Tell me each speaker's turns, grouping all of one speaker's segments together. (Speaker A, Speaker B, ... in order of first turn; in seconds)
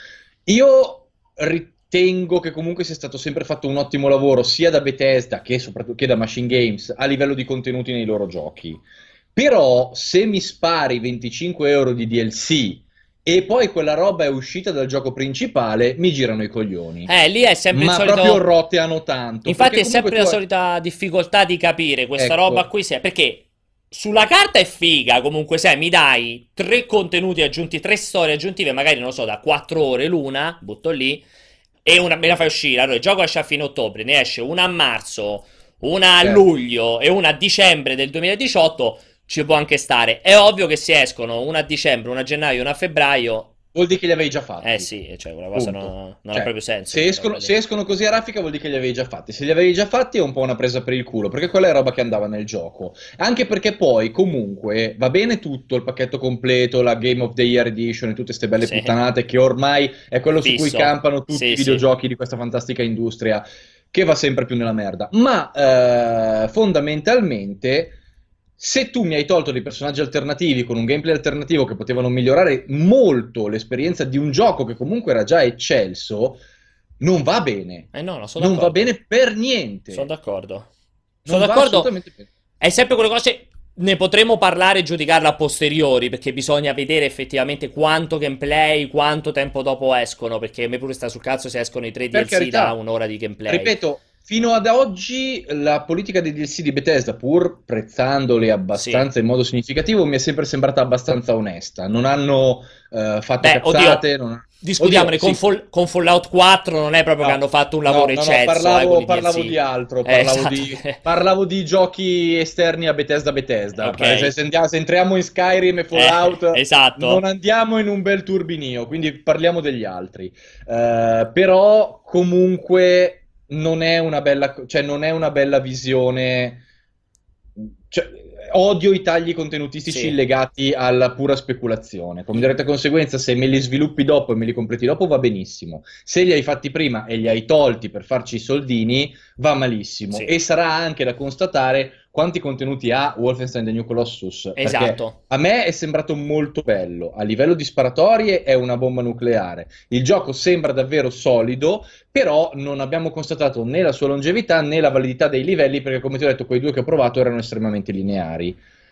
Speaker A: 0.5-8.8, 9.3-17.1, 17.7-20.4, 22.2-22.7, 43.7-44.9, 45.5-68.0, 68.6-76.4, 77.0-80.1, 81.2-82.3, 92.1-92.8, 93.5-105.4, 107.2-126.6, 127.6-158.6
Speaker B: 17.1-18.4, 19.5-31.2, 31.9-43.5, 44.6-47.6, 58.6-58.9, 60.4-61.9, 77.9-78.9, 79.9-80.7, 81.3-81.9, 82.6-93.7, 98.7-99.1, 103.4-104.0, 104.6-111.0, 113.8-114.3, 115.9-117.2, 129.9-130.2, 144.6-145.2